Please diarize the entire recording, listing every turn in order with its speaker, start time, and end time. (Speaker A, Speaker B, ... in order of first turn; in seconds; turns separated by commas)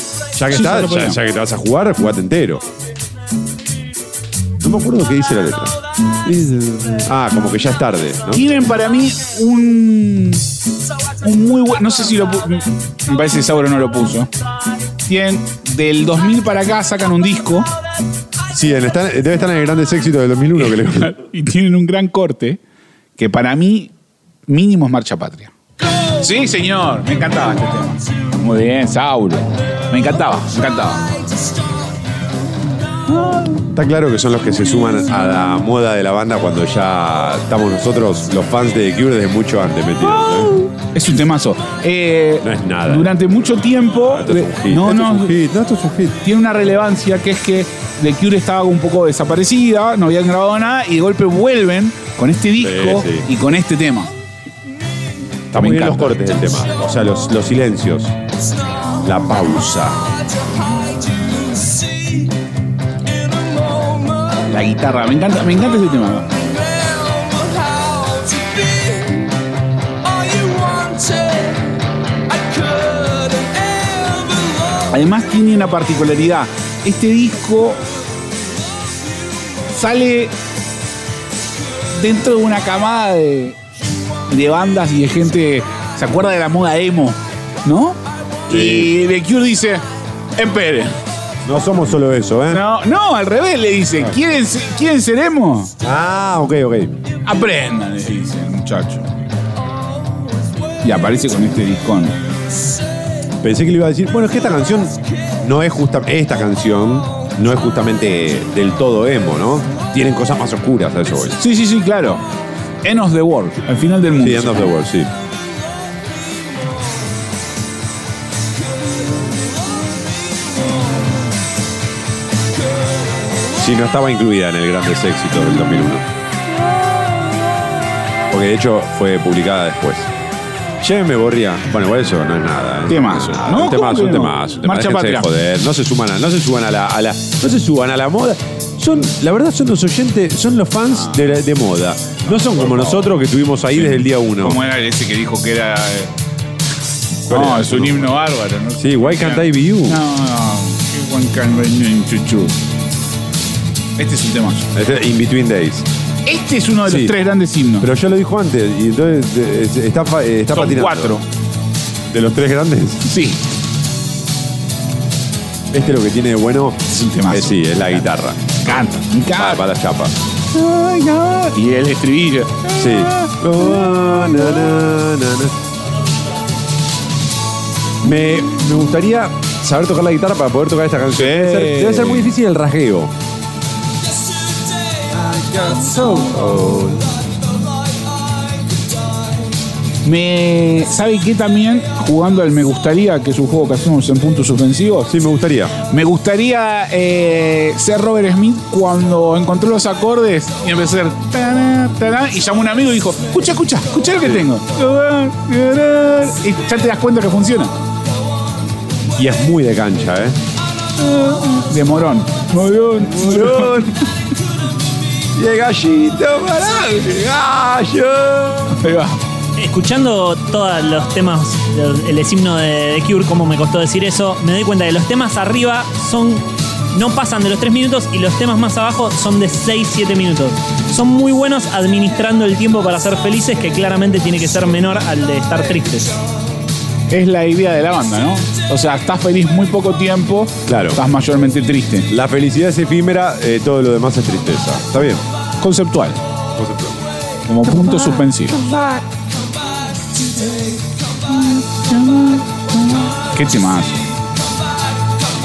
Speaker A: 0.3-2.6, Speaker B: 0.5-1.2, Speaker A: 4.6-8.5, Speaker B: 8.3-10.5, Speaker B: 11.2-14.3, Speaker B: 15.1-17.7, Speaker A: 18.5-21.1, Speaker B: 20.6-22.6, Speaker B: 23.2-23.9, Speaker B: 24.5-25.5, Speaker B: 26.2-31.1, Speaker B: 33.1-33.6, Speaker A: 33.7-40.5, Speaker B: 40.2-45.4, Speaker A: 42.4-43.2, Speaker A: 43.9-46.2, Speaker B: 46.2-54.1, Speaker A: 52.6-53.3, Speaker A: 55.5-58.1, Speaker B: 55.5-56.2, Speaker A: 59.0-60.1, Speaker B: 64.4-66.5, Speaker B: 74.9-77.8, Speaker B: 79.7-80.3, Speaker B: 81.9-83.6, Speaker B: 84.3-89.8, Speaker A: 88.5-88.9, Speaker B: 90.3-91.0, Speaker A: 91.4-92.6, Speaker B: 92.5-95.7, Speaker A: 95.8-96.9, Speaker B: 97.2-99.2, Speaker B: 100.8-102.2, Speaker A: 103.4-111.4, Speaker B: 111.4-112.2, Speaker B: 112.8-114.7, Speaker A: 114.2-115.1, Speaker A: 123.6-126.1, Speaker A: 128.3-130.1, Speaker A: 130.8-144.6, Speaker B: 132.9-135.3, Speaker B: 140.9-141.3, Speaker B: 142.2-143.1, Speaker B: 143.7-146.1, Speaker B: 147.2-152.6, Speaker A: 147.3-148.2, Speaker A: 148.8-150.0, Speaker B: 154.0-154.7, Speaker A: 154.7-155.9, Speaker B: 156.2-157.9, Speaker A: 156.8-157.2, Speaker A: 157.8-161.2, Speaker B: 160.5-161.2, Speaker A: 162.1-163.1, Speaker B: 163.0-163.4, Speaker A: 165.7-170.2, Speaker B: 166.9-168.1, Speaker B: 168.6-169.6, Speaker B: 170.5-174.6, Speaker A: 172.7-175.6, Speaker A: 178.0-183.1, Speaker B: 181.1-182.3, Speaker B: 185.3-186.3, Speaker A: 186.1-187.2, Speaker B: 190.0-195.1, Speaker A: 195.1-195.8, Speaker B: 195.8-207.7, Speaker A: 209.2-210.4, Speaker B: 211.0-214.1, Speaker A: 213.0-213.9, Speaker A: 215.3-218.8, Speaker B: 218.7-219.2, Speaker C: 219.6-236.2, Speaker B: 237.1-242.1, Speaker A: 240.7-241.0, Speaker A: 242.1-245.2, Speaker B: 245.6-246.2, Speaker A: 246.6-247.0, Speaker B: 247.4-248.6, Speaker A: 247.6-249.1, Speaker B: 251.9-252.4, Speaker B: 253.2-254.1